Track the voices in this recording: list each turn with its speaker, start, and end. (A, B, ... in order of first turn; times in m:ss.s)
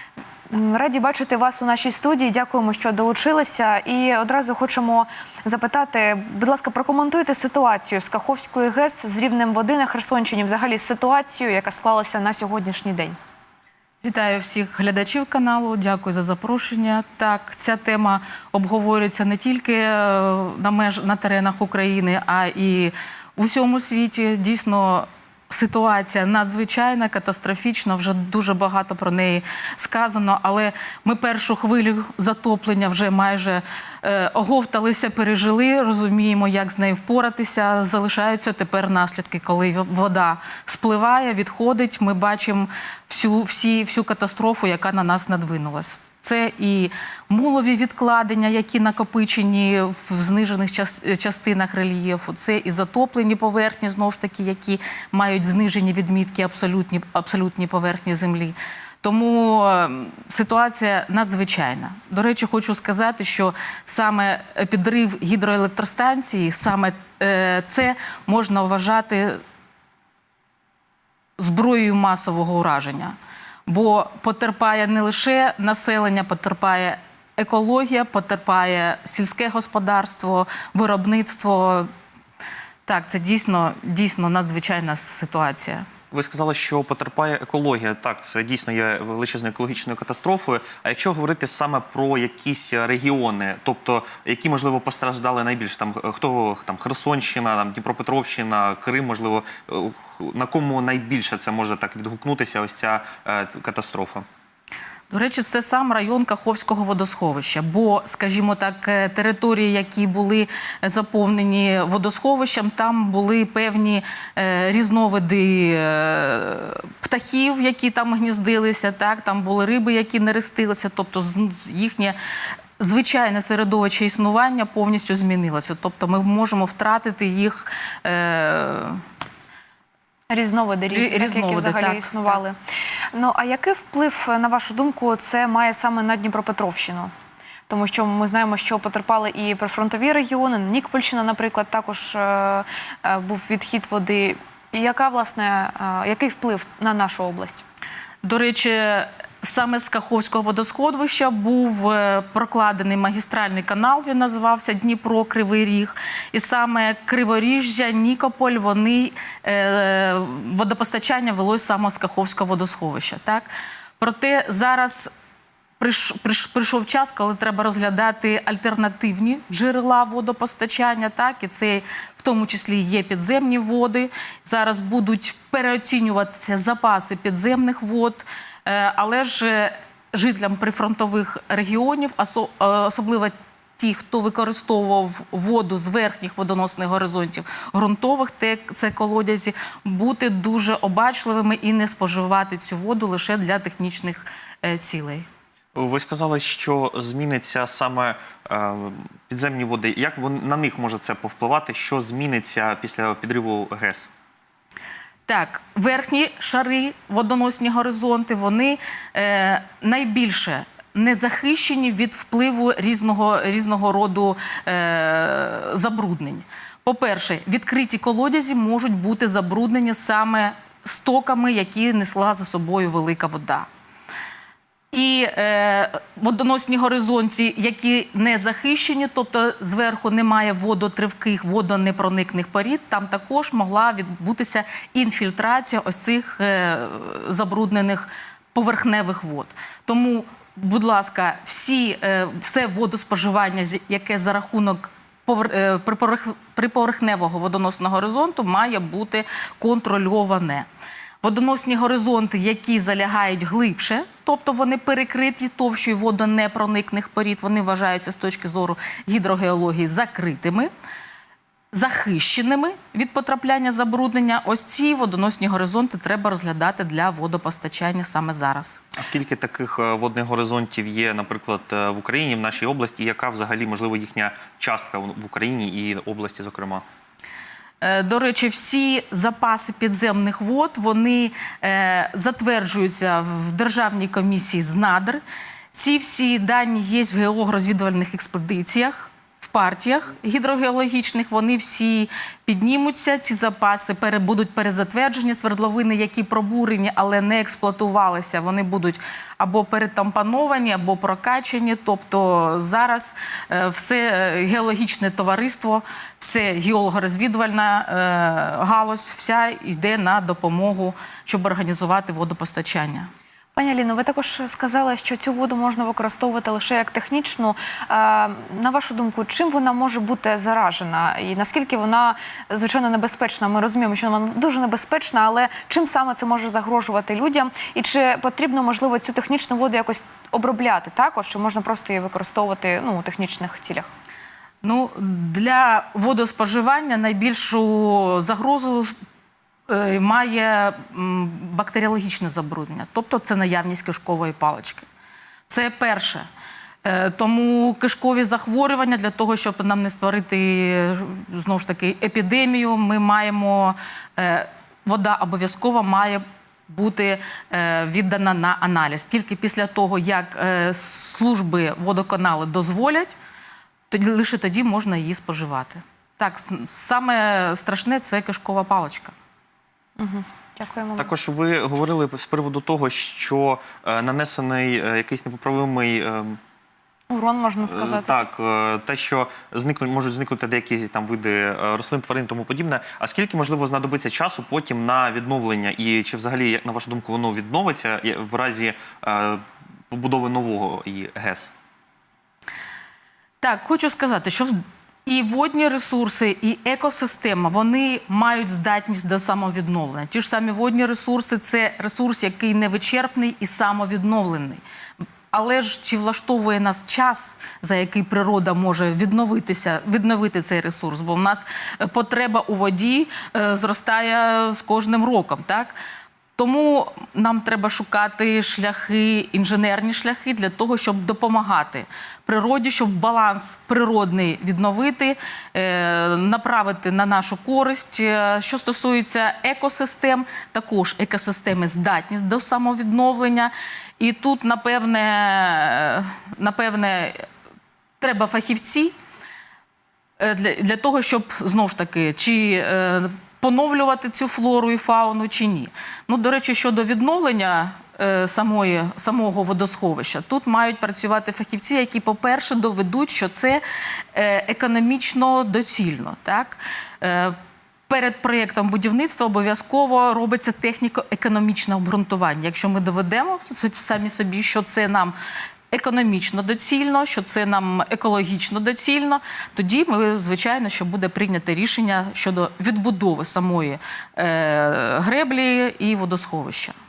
0:00.5-0:13.2 A
0:14.0-1:09.4 B
1:11.4-1:13.2 B
1:13.7-1:21.9 B
1:22.9-1:25.9 B
1:26.1-1:44.2 C
1:45.1-2:02.2 B
2:02.8-2:09.0 B
2:10.3-2:12.6 A
2:10.9-2:12.4 B
2:13.1-2:17.1 A
2:17.7-2:27.6 A
2:28.2-2:45.1 B
2:45.8-3:15.3 B
3:15.8-3:24.1 C
3:25.3-3:43.7 B
3:44.9-4:10.7 B
4:11.2-4:20.7 B
4:21.7-4:28.8 B
4:29.0-4:36.8 C
4:37.8-4:45.2 B
4:45.7-5:13.1 B
5:13.6-5:33.9 A
5:34.6-5:39.0 B
5:39.7-5:44.9 B
5:45.5-5:46.3 B
5:46.8-6:03.1 B
6:03.9-6:09.1 B
6:10.0-6:11.1 A
6:11.0-6:16.4 C
6:17.1-6:18.3 A
6:17.7-6:31.5 C
6:33.4-6:44.6 B
6:45.3-6:55.8 B
6:56.4-7:17.2 B
7:18.0-7:18.9 B
7:20.2-7:37.4 B
7:37.9-7:45.2 B
7:45.7-7:56.8 B